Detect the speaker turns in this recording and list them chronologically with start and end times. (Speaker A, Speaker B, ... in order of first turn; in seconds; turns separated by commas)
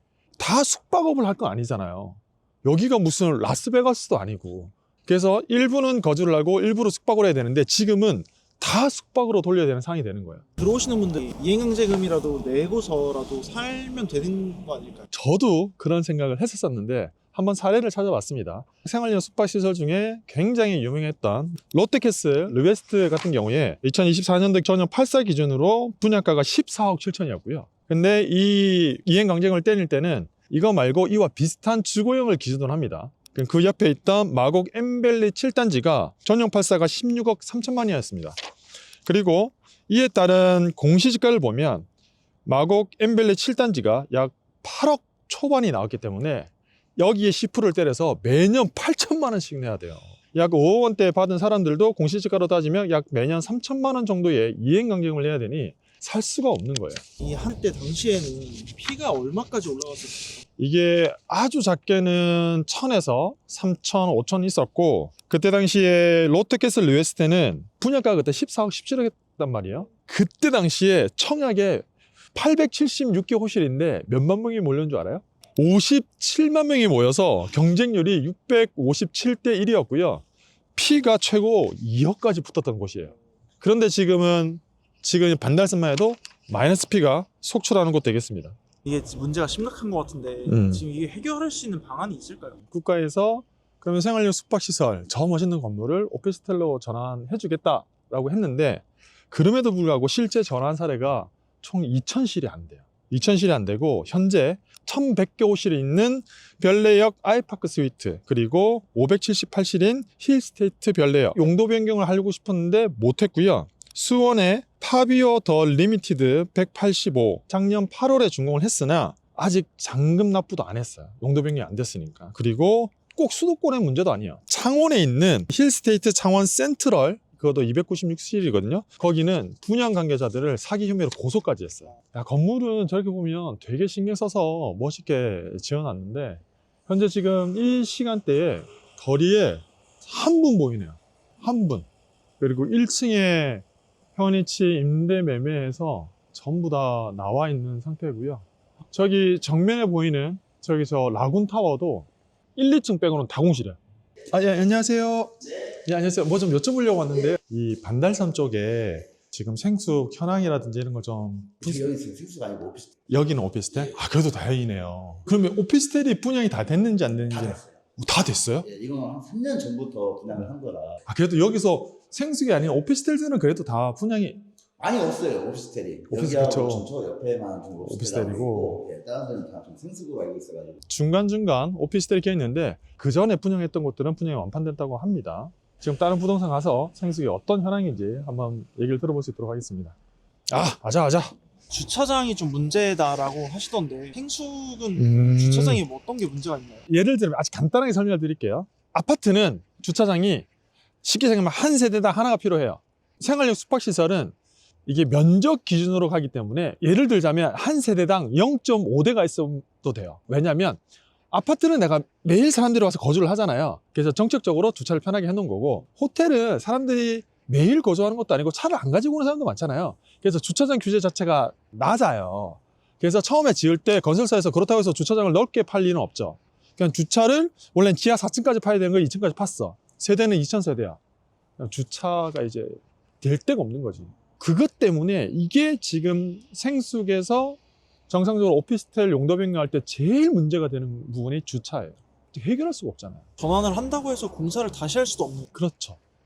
Speaker A: 0.4-10.4, Speaker B: 10.6-15.1, Speaker A: 15.1-38.4, Speaker A: 39.0-41.9, Speaker A: 42.5-57.0, Speaker B: 57.2-60.4, Speaker A: 60.6-80.2, Speaker A: 80.8-88.6, Speaker B: 88.8-92.6, Speaker A: 90.5-90.8, Speaker A: 92.7-141.9, Speaker A: 142.4-143.6, Speaker A: 144.2-153.8, Speaker A: 154.3-161.9, Speaker C: 161.6-163.0, Speaker A: 163.1-168.7, Speaker C: 167.3-167.8, Speaker C: 168.6-171.0, Speaker A: 171.1-174.4, Speaker C: 174.8-180.8, Speaker A: 176.1-176.9, Speaker A: 177.8-178.8, Speaker A: 180.9-190.0, Speaker A: 190.5-191.3, Speaker B: 191.7-196.9, Speaker A: 195.0-195.8, Speaker A: 196.9-200.5, Speaker A: 201.0-204.3, Speaker A: 204.9-210.8, Speaker A: 211.3-231.0, Speaker A: 231.6-243.2, Speaker B: 243.4-245.5, Speaker A: 245.5-246.0